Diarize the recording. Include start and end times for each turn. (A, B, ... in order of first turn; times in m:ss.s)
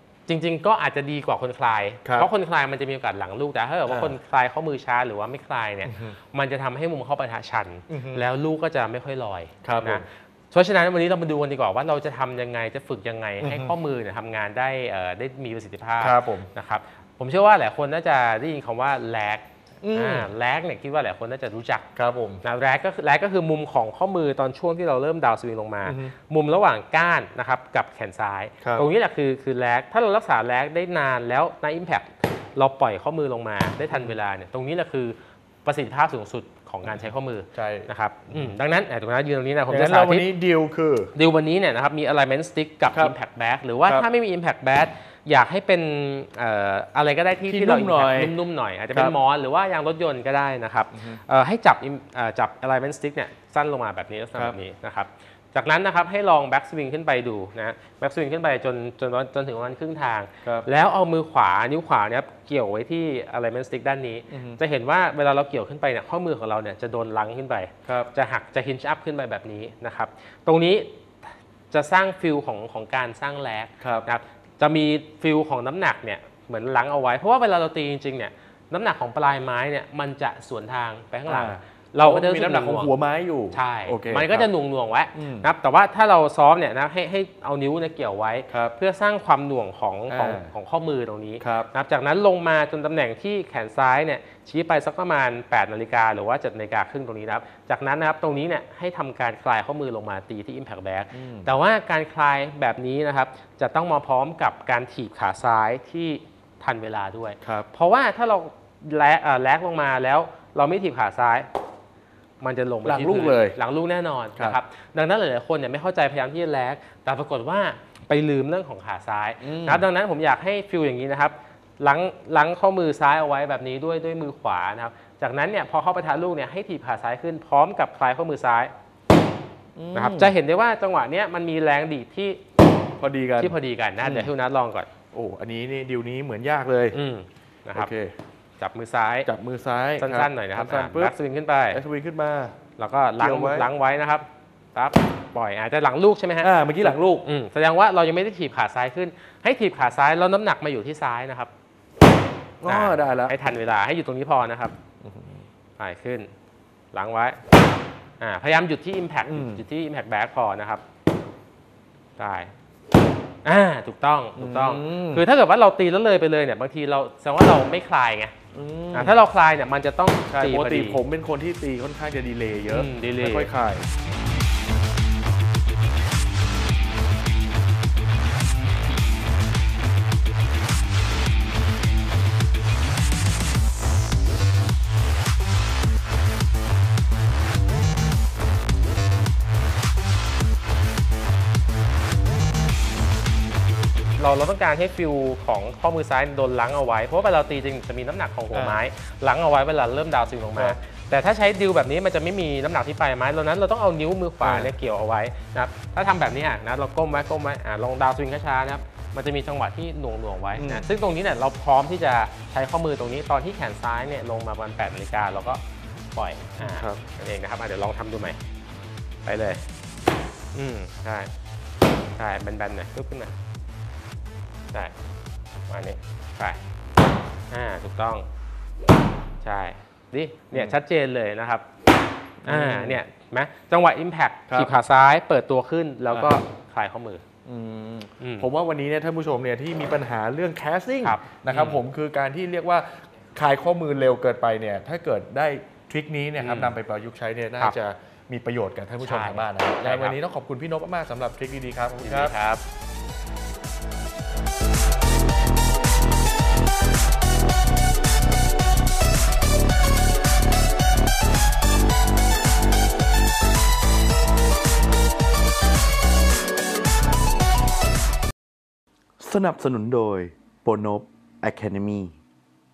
0:00.3-0:21.8 A
0:03.9-0:04.2 B
0:05.9-0:06.1 B
0:07.9-0:08.2 B
0:09.6-0:10.0 B
0:13.4-0:13.7 B
0:16.0-0:16.5 B
0:19.8-0:20.3 B
0:22.0-0:22.4 B
0:22.4-0:40.2 A
0:25.8-0:26.1 B
0:37.5-0:38.6 B
0:39.7-0:41.1 B
0:41.1-1:11.0 A
0:47.5-0:48.3 B
0:50.9-0:51.2 B
1:04.3-1:04.6 B
1:11.7-1:22.9 A
1:13.8-1:14.1 B
1:21.3-1:24.5 B
1:23.5-1:51.5 A
1:25.2-1:25.5 B
1:28.5-1:28.8 B
1:30.1-1:30.5 B
1:31.4-1:31.7 B
1:41.1-1:41.5 B
1:52.4-2:08.7 A
1:52.8-1:53.6 B
1:59.4-1:59.9 B
2:09.8-2:10.3 B
2:09.9-2:12.4 A
2:13.0-2:14.3 B
2:13.4-2:14.9 A
2:15.1-2:17.0 B
2:16.9-2:17.9 A
2:17.7-2:18.1 B
2:18.6-2:19.3 A
2:19.2-2:21.1 B
2:20.0-2:21.8 A
2:21.7-2:22.6 B
2:22.8-2:31.5 A
2:23.2-2:23.7 B
2:26.4-2:27.2 B
2:32.6-2:33.3 B
2:32.7-2:34.7 A
2:35.0-2:35.4 B
2:35.8-2:36.3 A
2:36.9-2:37.4 A
2:38.2-2:40.8 A
2:39.3-2:39.6 B
2:42.2-2:42.5 A
2:43.4-2:48.3 A
2:44.4-2:45.2 B
2:48.5-2:49.1 B
2:48.9-2:51.0 A
2:50.3-2:53.9 B
2:52.7-2:53.5 A
3:14.2-3:35.6 A
3:18.5-3:18.8 B
3:24.4-3:24.7 B
3:30.6-3:30.8 B
3:36.1-3:38.4 A
3:36.6-3:37.0 B
3:39.2-3:39.6 A
3:40.5-3:41.3 A
3:42.2-3:43.3 A
3:45.7-3:46.6 A
3:47.5-3:48.2 A
3:49.4-3:51.6 A
3:52.4-3:53.0 B
3:52.5-3:57.2 A
3:56.1-3:56.3 B
3:57.5-4:12.3 B
3:58.2-3:58.5 A
4:01.0-4:01.8 A
4:06.4-4:06.8 A
4:09.0-4:10.2 A
4:12.0-4:12.6 A
4:29.2-4:32.1 C